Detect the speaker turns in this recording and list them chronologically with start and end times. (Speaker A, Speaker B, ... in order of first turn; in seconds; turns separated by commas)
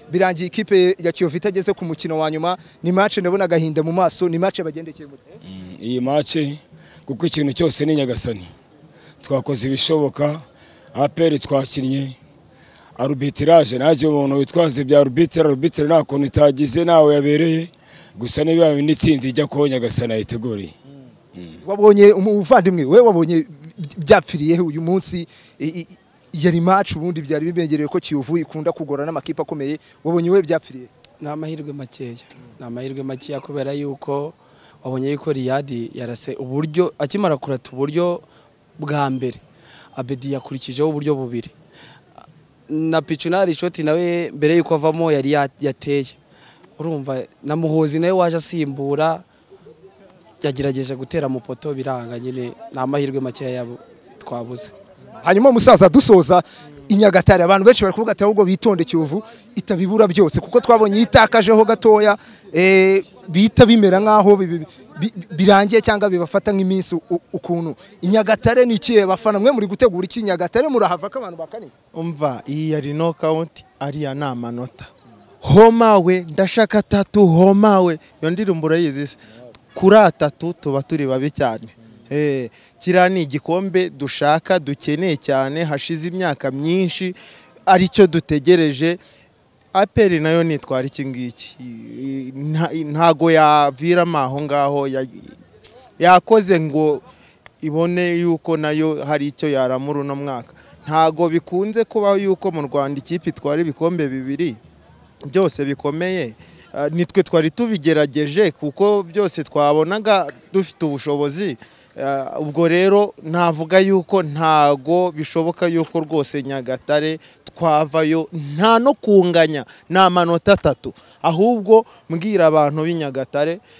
Speaker A: 0.1-5.2, Speaker B: 5.5-8.5, Speaker B: 9.2-10.4, Speaker B: 10.9-12.2, Speaker B: 13.0-20.7, Speaker A: 21.6-30.9, Speaker C: 31.2-38.2, Speaker C: 38.8-39.4, Speaker C: 40.0-41.5, Speaker C: 42.7-46.2, Speaker C: 46.8-49.2, Speaker C: 50.4-54.7, Speaker A: 55.2-71.7, Speaker D: 71.9-74.9, Speaker D: 75.4-79.2, Speaker D: 79.7-89.0, Speaker D: 89.7-95.3, Speaker D: 96.0-97.0, Speaker D: 97.6-104.6, Speaker D: 105.3-123.6